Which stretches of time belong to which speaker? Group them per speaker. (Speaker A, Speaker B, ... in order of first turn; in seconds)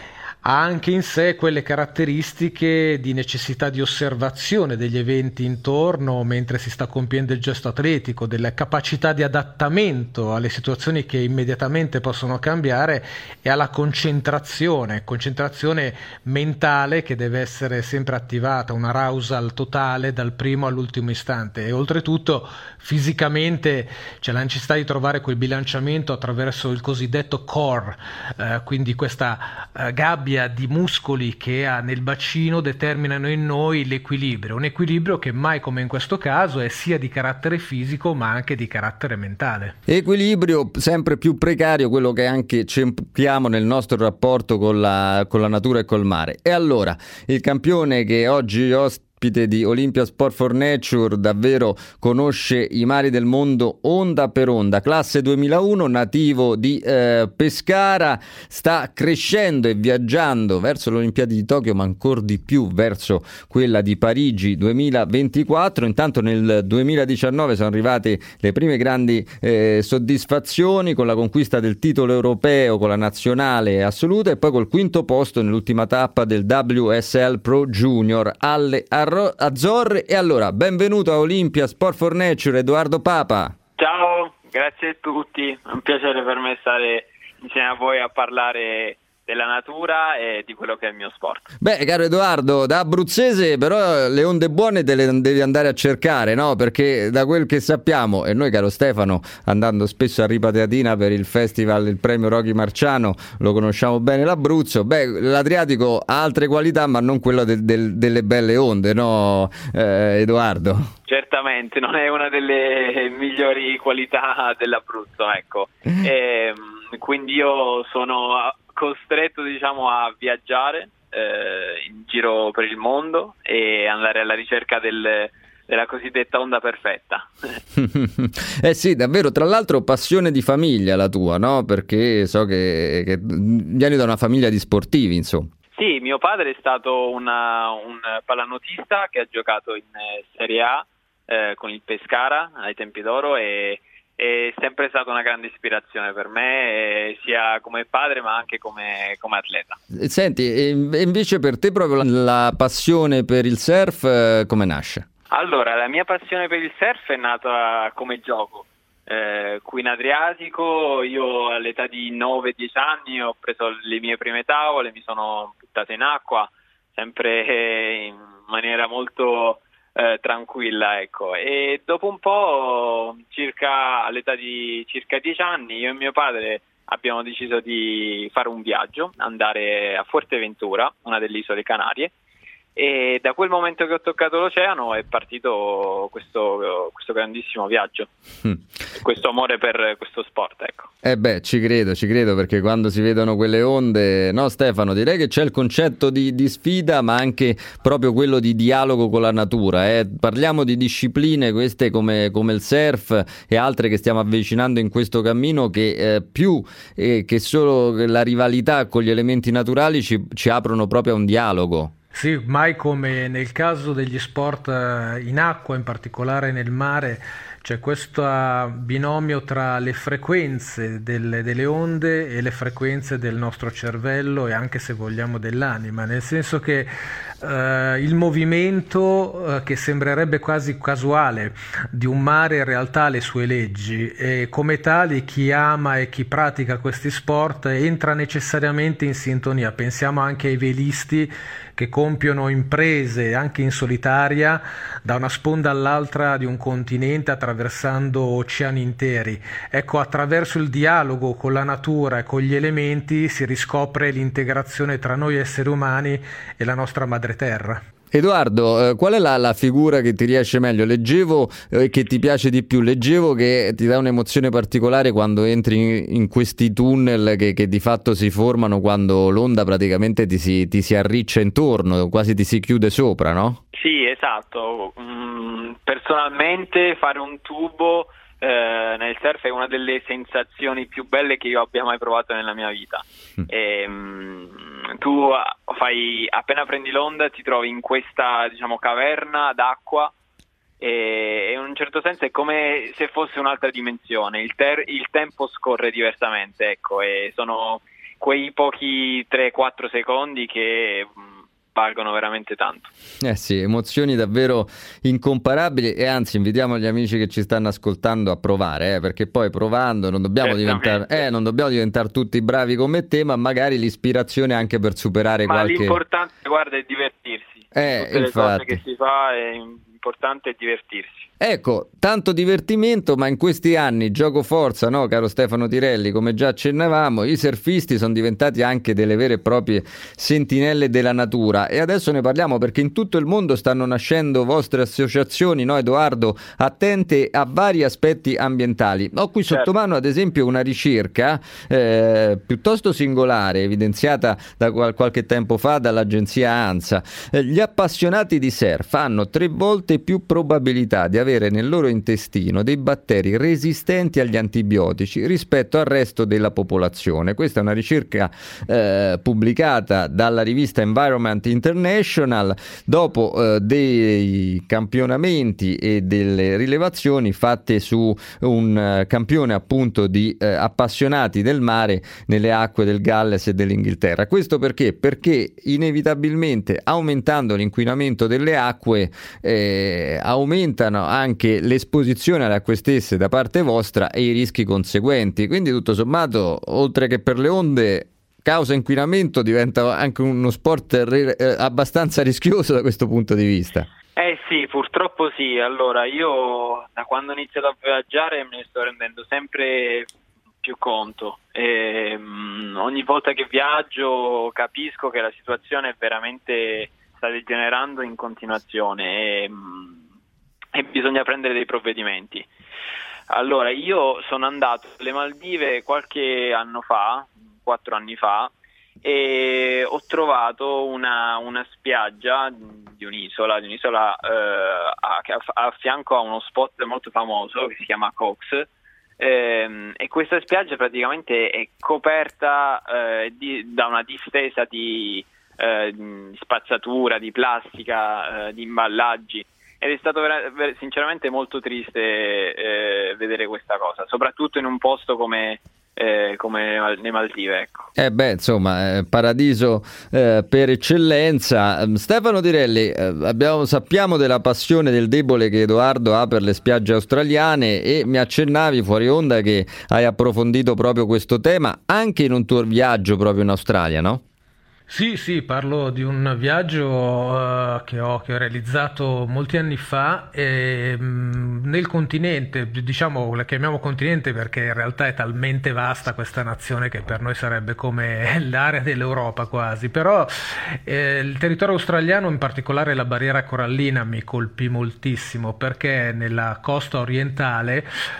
Speaker A: 0.4-39.8, 212.1-257.8, 464.9-480.3, 480.9-487.9
Speaker B: 39.9-83.5, 91.6-110.9, 127.8-135.5, 149.9-155.1, 191.0-211.9, 258.1-273.6, 303.2-316.0, 317.7-318.8, 321.4-393.9, 448.0-464.2
Speaker C: 83.8-91.5, 111.1-127.6, 135.8-149.8, 155.3-182.1, 182.8-188.1, 188.9-190.9, 273.7-290.1, 290.8-302.9, 310.4-311.2, 315.5-321.3, 394.2-400.1, 400.6-410.0, 410.8-412.5, 413.3-418.5, 419.0-428.7, 429.2-447.9